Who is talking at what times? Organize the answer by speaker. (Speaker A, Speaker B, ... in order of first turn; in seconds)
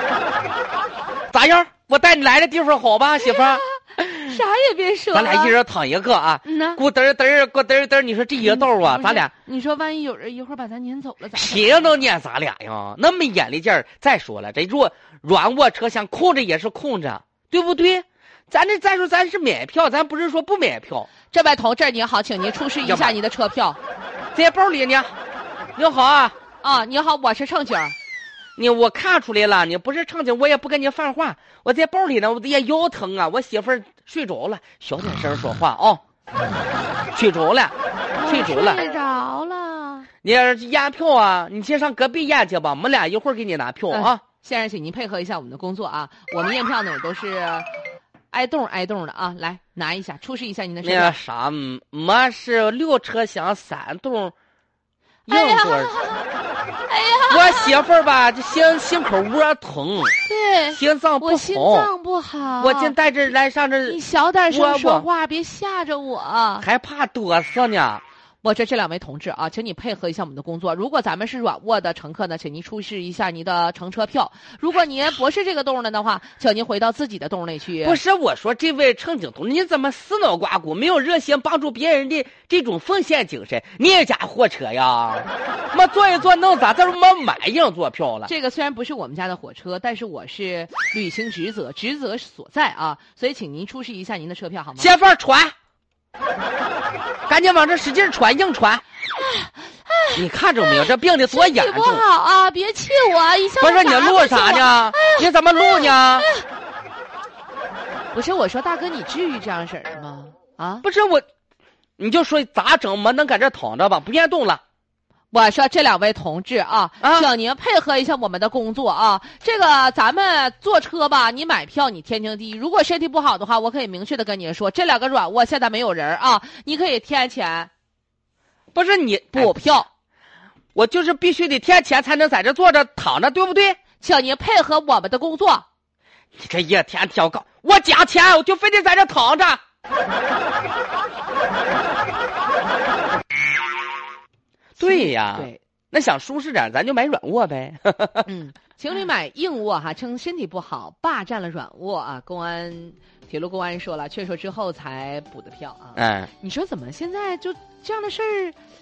Speaker A: 1.3-4.4, 5.1-9.3, 11.3-21.1, 22.8-23.2, 24.3-25.1, 25.8-26.3, 28.6-36.0, 37.1-37.7, 38.2-38.8, 40.2-44.2, 50.8-54.3, 55.3-55.9, 57.3-60.2, 60.7-61.9, 62.6-64.0, 64.5-65.1, 66.6-68.0, 77.8-88.3, 94.8-95.5, 97.3-98.8, 100.1-102.0, 103.6-106.3, 110.8-111.2, 112.0-114.6, 117.0-117.3, 128.7-129.8, 130.7-133.8, 136.3-139.6, 144.8-148.3, 155.9-156.3
Speaker B: 3.2-5.5, 6.4-6.8, 8.4-12.0, 21.3-23.8, 26.6-27.9, 38.1-40.1, 43.9-47.7, 48.3-51.2, 55.3-56.3, 56.9-57.8, 60.2-62.9, 63.9-66.7, 68.4-78.0, 88.2-94.9, 99.2-106.5, 108.1-110.8, 115.3-127.7, 129.3-129.9, 134.0-135.6, 144.8-145.6, 148.2-158.6